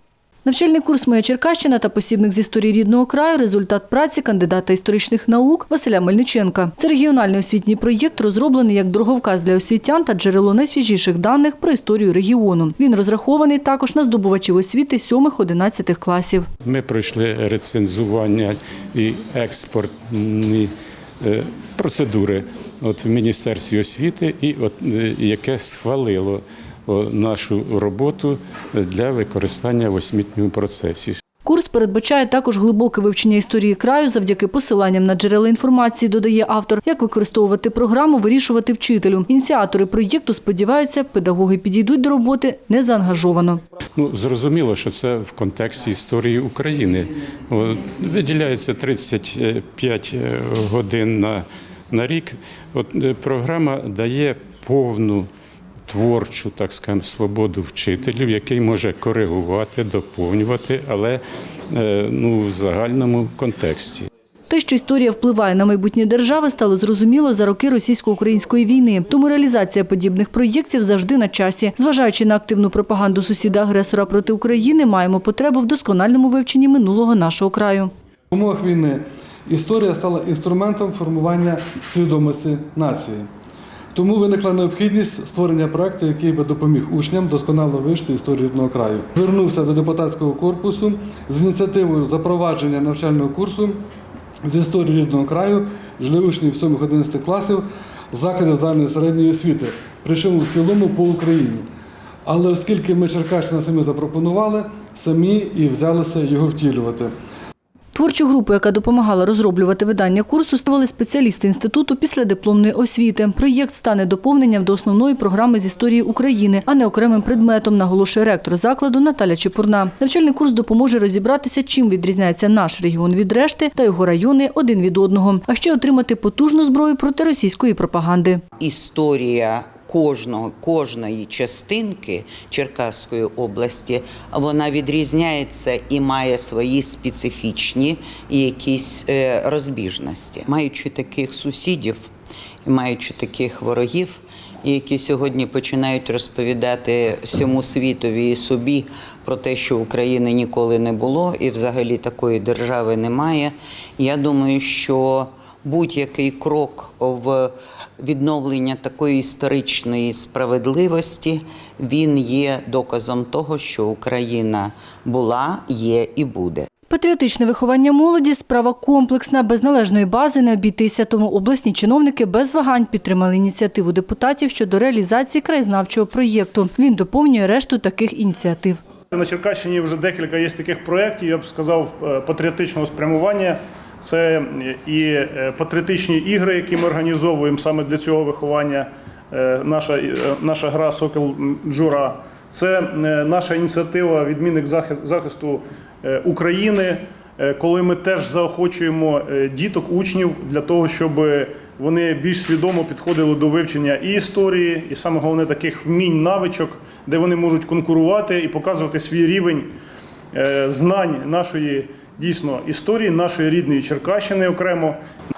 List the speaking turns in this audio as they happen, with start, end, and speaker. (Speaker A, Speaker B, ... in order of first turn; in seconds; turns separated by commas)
Speaker A: 0.4-16.5, Speaker B: 16.6-20.7, Speaker B: 21.2-31.2, Speaker A: 31.4-43.6, Speaker B: 44.0-55.2, Speaker B: 55.9-64.1, Speaker A: 64.5-77.9, Speaker C: 78.3-83.3, Speaker C: 83.9-93.8, Speaker C: 94.4-101.7, Speaker C: 102.2-107.1, Speaker A: 107.9-128.4, Speaker D: 128.6-142.1, Speaker D: 142.6-166.7, Speaker A: 166.9-178.8, Speaker E: 179.1-209.7, Speaker E: 210.3-215.0